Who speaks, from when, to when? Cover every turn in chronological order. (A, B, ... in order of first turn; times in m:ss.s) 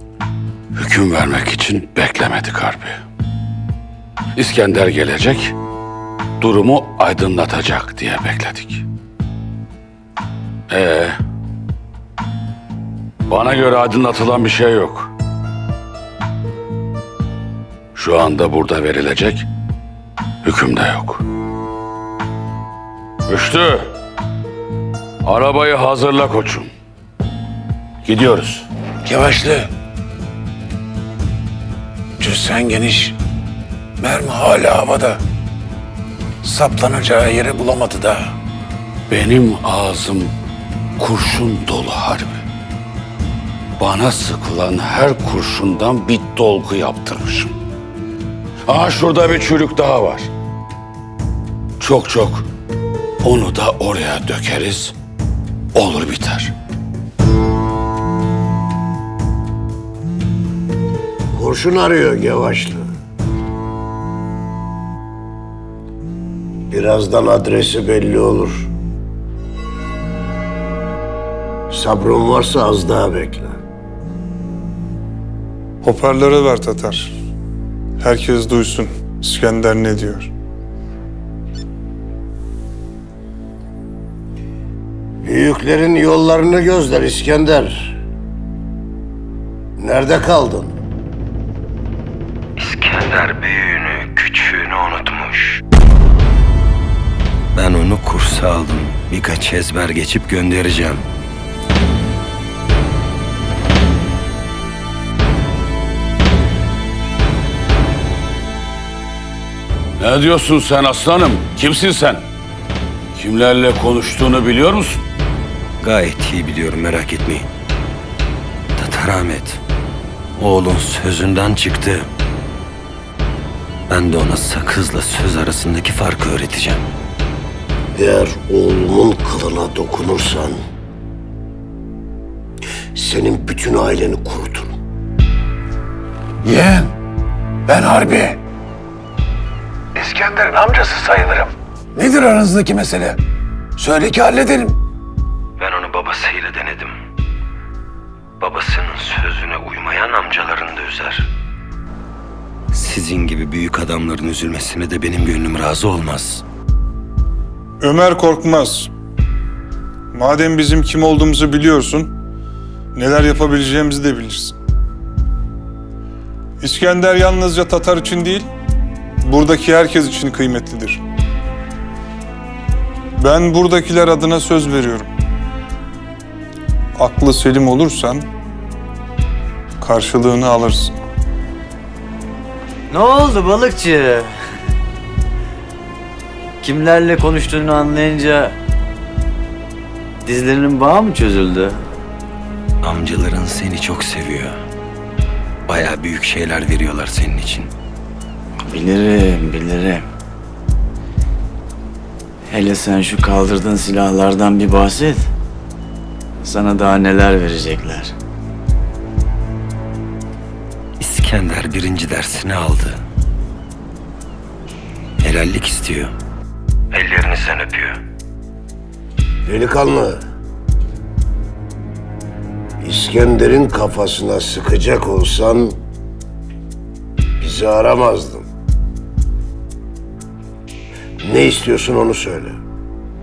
0:00.7-0:03.0 A
0:04.4-0:05.5 A
0:06.4-0:08.8 A
0:10.7-0:11.2 A
0:13.3-0:15.1 A
0:18.0-0:19.5 A
0:20.4-0:21.2 A
0:23.3-0:23.9 A
0:25.2-0:26.7 A
0:28.0-0:28.7 A
0:29.0-0:29.7 B
0:32.2-0:33.2 B
0:34.0-0:35.2 B
0:36.4-0:38.3 B
0:39.1-0:40.3 A
0:41.0-0:42.4 A
0:43.8-0:47.5 A
0:48.7-0:50.3 A
0:51.8-0:52.5 A
0:53.2-0:54.9 A
0:55.7-0:56.5 A
1:01.3-1:02.9 C
1:06.7-1:08.7 C
1:11.7-1:13.6 C
1:15.8-1:17.1 D
1:18.0-1:20.3 D
1:25.2-1:28.0 C
1:29.8-1:30.8 C
1:32.6-1:35.6 E
1:37.5-1:41.0 E
1:50.0-1:52.2 A
1:53.2-1:55.0 A
1:55.8-1:57.5 E
1:58.8-1:59.6 E
2:00.4-2:02.1 E
2:03.9-2:06.8 E
2:07.9-2:10.6 C
2:13.0-2:14.7 C
2:16.4-2:16.9 B
2:17.7-2:18.4 B
2:20.0-2:23.2 B
2:23.8-2:24.8 B
2:25.6-2:27.0 E
2:28.4-2:31.3 E
2:32.7-2:36.4 E
2:37.8-2:38.9 D
2:40.1-2:42.1 D
2:43.0-2:44.6 D
2:46.6-2:48.5 D
2:49.2-2:51.0 D
2:53.2-2:55.1 D
2:57.0-2:58.3 D
2:59.8-3:01.0 D
3:02.9-3:04.3 F
3:06.6-3:08.6 F
3:10.2-3:11.8 F
3:12.8-3:14.6 E
3:15.7-3:17.7 E
3:18.6-3:20.0 F
3:22.5-3:25.3 F
3:26.4-3:28.1 F
3:31.0-3:33.0 E
3:35.2-3:36.1 E
3:36.9-3:38.0 E
3:39.4-3:40.2 C
3:42.8-3:45.8 C
3:47.4-3:48.5 C
3:51.2-3:52.6 C